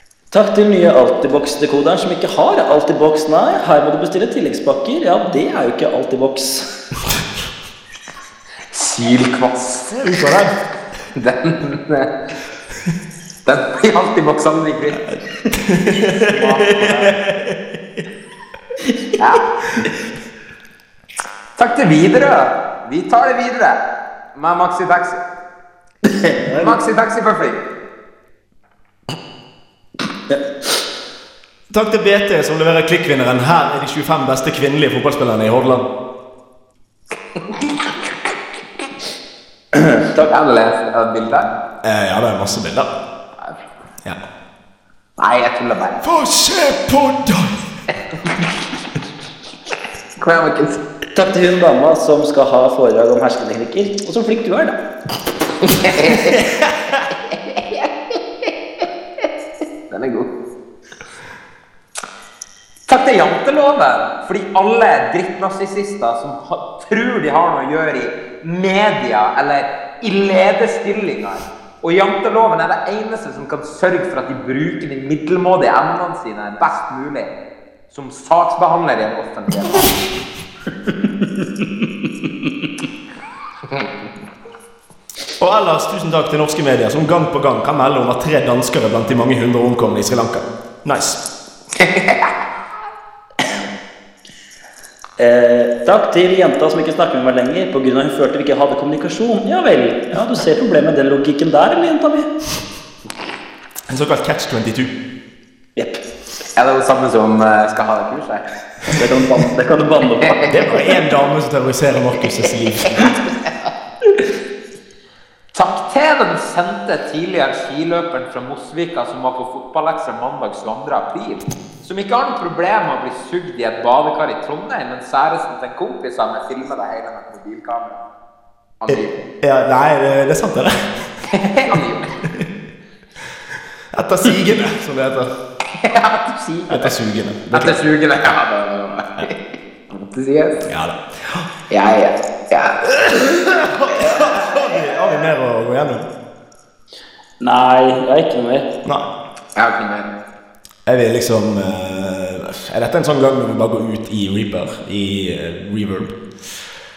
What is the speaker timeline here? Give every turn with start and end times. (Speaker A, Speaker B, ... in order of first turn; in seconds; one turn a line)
Speaker A: 0.3-6.7
Speaker B: 8.7-10.1
Speaker C: 9.9-10.6
Speaker B: 11.1-12.1
Speaker B: 13.4-15.0
Speaker C: 15.1-17.6
Speaker B: 15.9-17.2
Speaker B: 19.2-19.5
Speaker B: 21.6-23.8
Speaker B: 24.3-25.2
Speaker A: 26.0-26.8
Speaker B: 26.5-27.6
Speaker C: 31.7-35.8
Speaker B: 40.0-41.5
Speaker C: 41.8-42.9
Speaker B: 43.4-43.7
Speaker B: 45.2-46.0
Speaker C: 46.0-47.6
Speaker B: 50.1-50.8
Speaker A: 51.1-54.8
Speaker B: 55.6-56.5
Speaker B: 57.5-57.9
Speaker B: 59.9-60.3
Speaker B: 62.9-77.4
Speaker B: 77.9-80.0
Speaker A: 81.2-81.7
Speaker C: 85.4-91.2
Speaker B: 91.8-92.3
Speaker A: 95.2-102.3
Speaker C: 103.9-104.9
Speaker B: 106.5-108.4
Speaker A: 108.9-110.9
Speaker B: 110.2-110.5
Speaker C: 110.5-113.2
Speaker B: 113.0-113.5
Speaker B: 115.5-128.1
Speaker B: 128.8-129.2
Speaker C: 128.9-131.0
Speaker B: 131.3-132.1
Speaker C: 133.9-135.3
Speaker B: 135.8-136.9
Speaker C: 136.7-137.8
Speaker B: 137.5-140.7
Speaker C: 140.7-141.5
Speaker B: 141.7-143.2
Speaker C: 143.0-146.1
Speaker B: 143.9-144.4
Speaker A: 147.4-148.7
Speaker B: 149.6-150.2
Speaker C: 150.8-156.2